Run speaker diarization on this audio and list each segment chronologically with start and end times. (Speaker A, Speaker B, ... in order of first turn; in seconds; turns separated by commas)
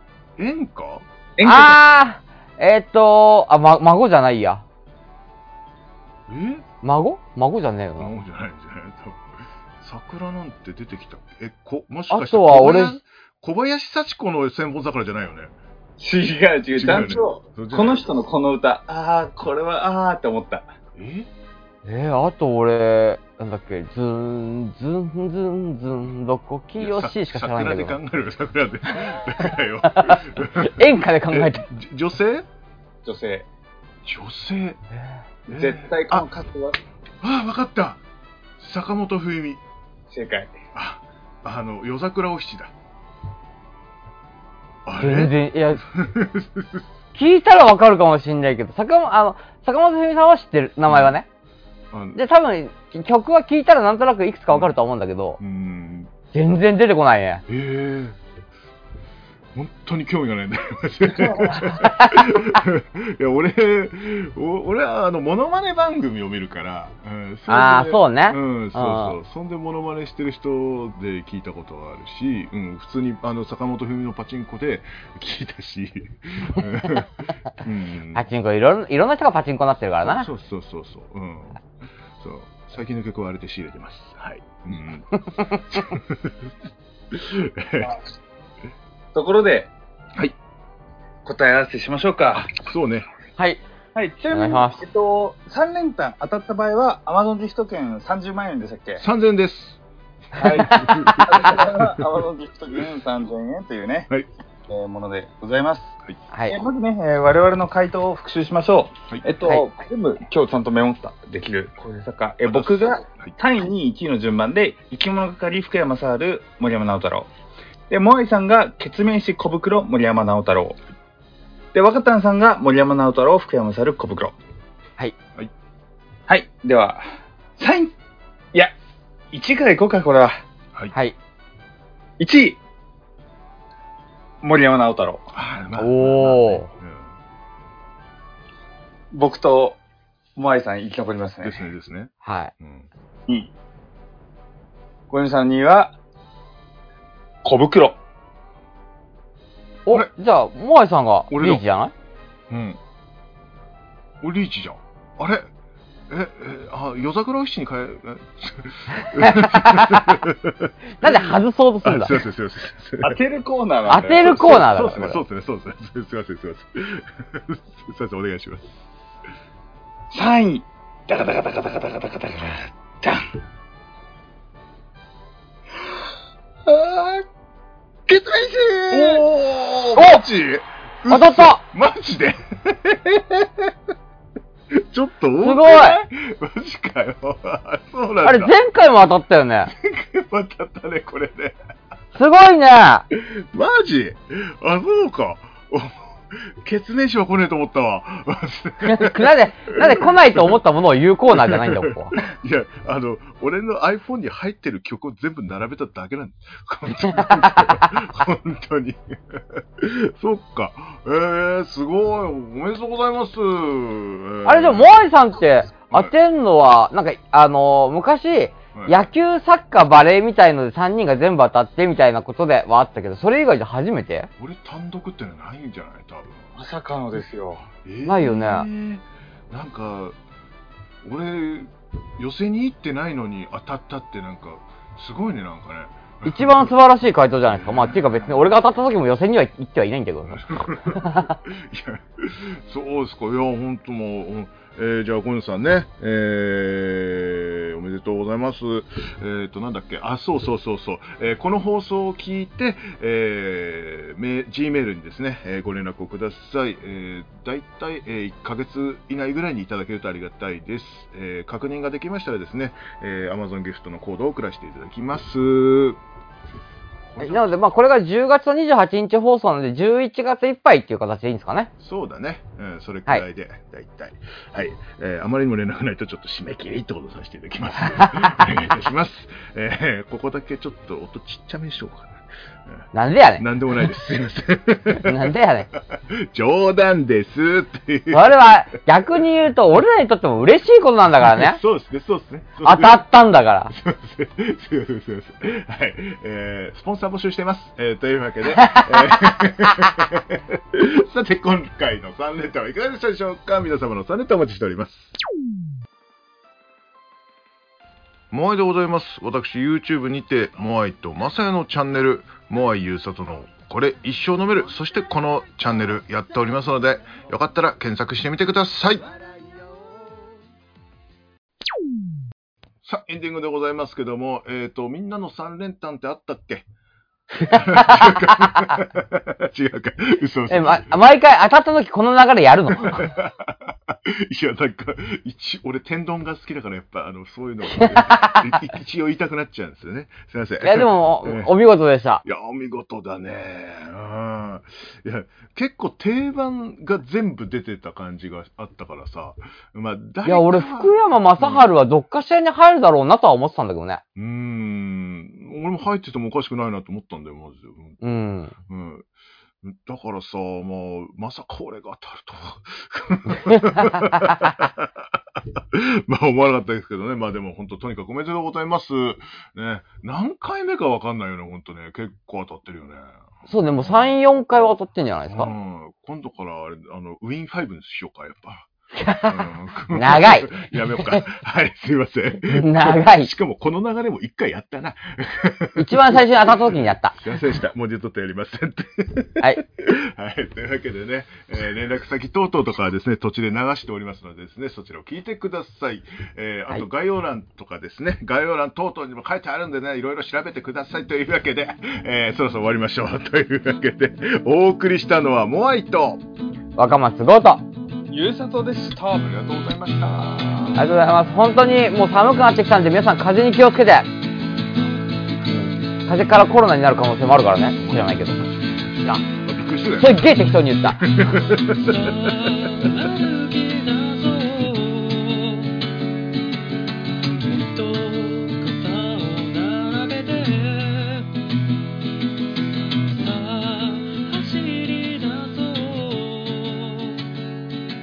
Speaker A: 0.4-1.1, Speaker B: 1.4-1.8, Speaker C: 1.4-4.7, Speaker A: 6.3-6.7, Speaker C: 6.8-8.1, Speaker A: 8.0-9.3, Speaker A: 9.8-15.5, Speaker C: 12.1-13.0, Speaker B: 16.0-20.8, Speaker A: 16.8-18.0, Speaker A: 20.9-21.3, Speaker C: 21.9-28.0, Speaker A: 26.8-32.5, Speaker C: 29.8-31.6, Speaker B: 33.0-33.5, Speaker A: 34.0-34.8, Speaker A: 35.5-36.3, Speaker B: 35.5-36.8, Speaker A: 37.2-38.0, Speaker A: 38.6-39.6, Speaker B: 40.1-40.6, Speaker A: 40.7-42.7, Speaker A: 44.9-46.9, Speaker C: 45.0-45.8, Speaker C: 47.1-51.3, Speaker A: 50.9-51.1, Speaker A: 51.9-52.2, Speaker C: 52.1-55.4, Speaker A: 55.4-56.1, Speaker C: 56.3-57.4, Speaker A: 57.5-58.2, Speaker A: 59.5-78.2, Speaker C: 61.6-62.1, Speaker C: 67.5-69.2, Speaker C: 78.1-80.3, Speaker A: 80.0-81.6, Speaker A: 82.2-86.5, Speaker C: 85.2-85.8, Speaker A: 87.1-88.0, Speaker B: 89.2-89.7, Speaker B: 91.2-92.5, Speaker A: 92.5-93.1, Speaker C: 93.4-93.6, Speaker B: 94.0-99.0, Speaker C: 94.3-94.8, Speaker A: 99.0-99.8, Speaker C: 100.4-101.5, Speaker B: 100.4-104.1, Speaker A: 100.4-102.0, Speaker B: 104.7-106.0, Speaker C: 106.3-106.6, Speaker B: 106.5-117.3, Speaker A: 112.5-113.4, Speaker B: 117.9-120.8, Speaker B: 121.7-124.3, Speaker B: 126.3-127.0, Speaker B: 127.6-127.9, Speaker B: 129.3-130.3, Speaker B: 132.2-132.6, Speaker B: 134.4-135.2, Speaker A: 135.3-137.2, Speaker C: 135.8-136.7, Speaker B: 139.1-139.8, Speaker B: 140.4-141.6, Speaker A: 141.4-142.9, Speaker C: 142.2-142.5, Speaker B: 145.1-146.0, Speaker B: 147.4-148.0, Speaker C: 149.9-151.9, Speaker A: 151.3-151.6, Speaker A: 152.5-152.8, Speaker A: 154.2-155.5, Speaker A: 156.1-161.3, Speaker C: 159.0-160.2, Speaker C: 161.0-162.2, Speaker A: 161.8-163.2, Speaker B: 163.0-164.3, Speaker C: 163.9-165.2, Speaker A: 164.0-168.9, Speaker B: 170.1-173.3, Speaker B: 176.7-177.2, Speaker B: 178.1-179.2, Speaker A: 178.9-183.7, Speaker C: 180.0-180.2, Speaker C: 181.1-181.6, Speaker A: 184.7-188.6, Speaker C: 185.4-186.0, Speaker C: 188.2-189.7, Speaker A: 189.7-191.6, Speaker C: 192.2-193.1, Speaker A: 193.1-200.6, Speaker C: 198.8-202.1, Speaker A: 201.3-215.1, Speaker C: 207.2-207.8, Speaker C: 214.4-224.3, Speaker A: 218.7-219.1, Speaker A: 224.4-226.5, Speaker B: 226.6-227.7, Speaker A: 227.8-230.2, Speaker C: 228.1-228.7, Speaker A: 231.0-236.7, Speaker C: 236.3-241.3, Speaker A: 237.5-238.5, Speaker A: 240.3-266.0, Speaker A: 267.1-267.7, Speaker C: 267.2-271.7, Speaker A: 271.8-282.8, Speaker C: 282.9-283.5, Speaker A: 283.4-288.8, Speaker C: 284.9-285.7, Speaker C: 288.1-291.6, Speaker A: 291.2-293.1, Speaker C: 292.6-293.7, Speaker A: 293.7-305.1, Speaker C: 298.6-299.1, Speaker A: 308.3-319.1, Speaker A: 322.8-326.7, Speaker A: 327.4-331.0, Speaker C: 327.5-328.1, Speaker C: 330.5-333.1, Speaker A: 332.8-341.5, Speaker C: 337.8-338.4, Speaker C: 340.6-342.2, Speaker A: 342.2-351.7, Speaker C: 350.2-354.0, Speaker A: 354.1-358.0, Speaker C: 358.0-358.5, Speaker A: 358.7-359.1, Speaker A: 359.6-374.2, Speaker C: 373.5-375.5, Speaker A: 375.3-378.7, Speaker C: 379.0-379.4, Speaker A: 379.2-406.2, Speaker C: 379.9-381.2, Speaker C: 382.5-383.3, Speaker C: 385.8-387.2, Speaker C: 406.8-407.6, Speaker B: 408.1-410.7, Speaker C: 410.8-414.1, Speaker C: 415.5-418.4, Speaker A: 417.8-420.3, Speaker C: 420.0-421.1, Speaker A: 421.0-423.0, Speaker D: 421.8-425.7, Speaker D: 427.4-431.3, Speaker D: 433.1-437.2